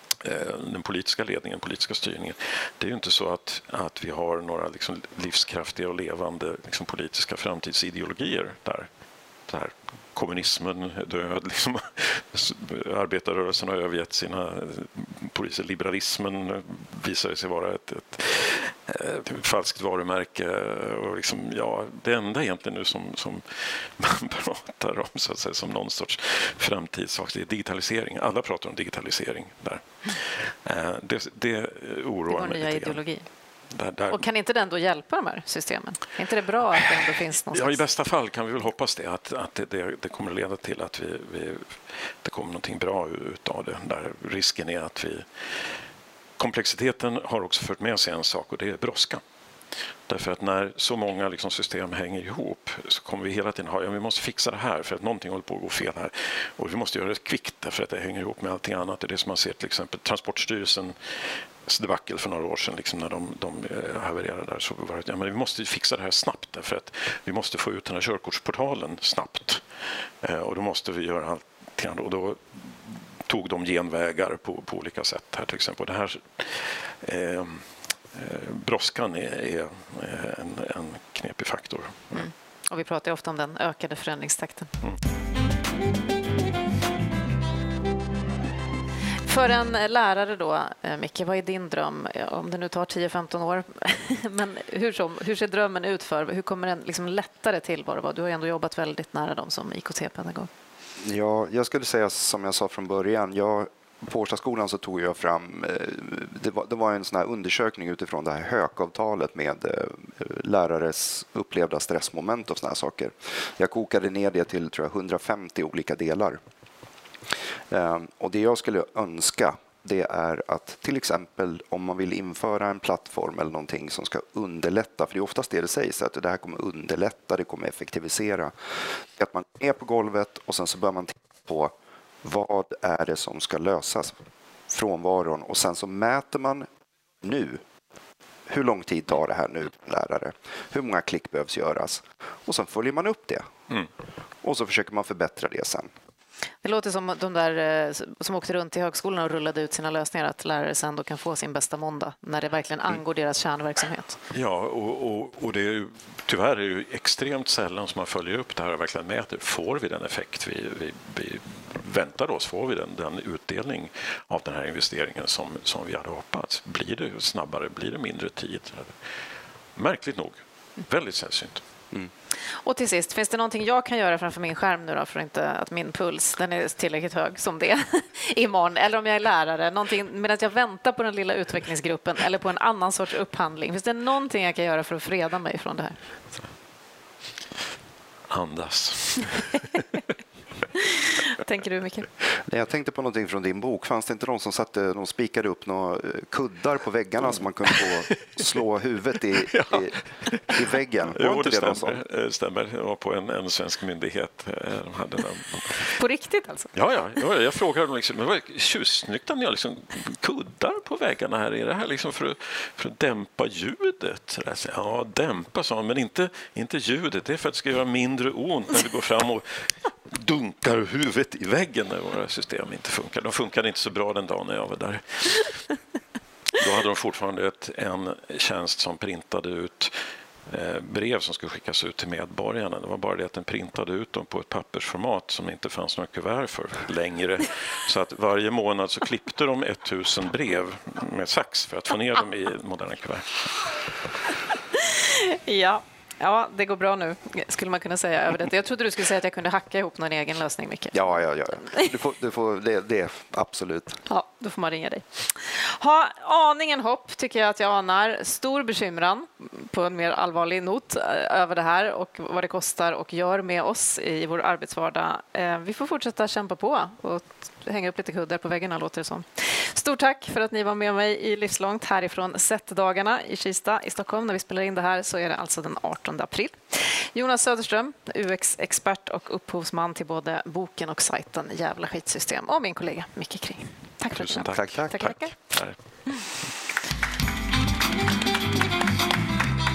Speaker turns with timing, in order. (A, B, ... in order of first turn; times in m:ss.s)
0:00.2-0:08.9 A
0:09.5-0:33.0 A
0:32.3-0:33.2 B
0:33.7-0:34.2 A
0:34.1-0:37.8 B
0:37.5-0:45.3 A
0:46.4-0:49.2 A
0:50.1-1:01.1 A
1:01.7-1:09.6 A
1:10.2-1:22.3 A
1:22.1-1:24.7 B
1:29.3-1:40.5 B
1:41.0-1:56.4 C
1:57.7-2:08.5 C
2:09.1-2:14.2 C
2:14.7-2:16.7 C
2:17.2-2:17.6 C
2:18.5-2:23.5 C
2:24.4-2:25.9 C
2:26.6-2:34.2 B
2:34.3-2:49.0 A
2:49.8-2:51.6 A
2:52.6-3:06.0 B
3:08.3-3:09.7 A
3:11.2-3:12.1 B
3:12.5-3:20.0 C
3:17.8-3:18.3 A
3:19.5-3:20.6 A
3:20.5-3:22.0 C
3:21.1-3:25.9 A
3:26.0-3:26.7 B
3:26.7-3:45.5 A
3:46.5-3:49.9 A
3:50.5-4:03.6 A
4:04.8-4:11.9 B
4:10.9-4:14.0 C
4:14.1-4:45.3 B
4:44.1-4:45.8 A
4:44.5-4:44.9 C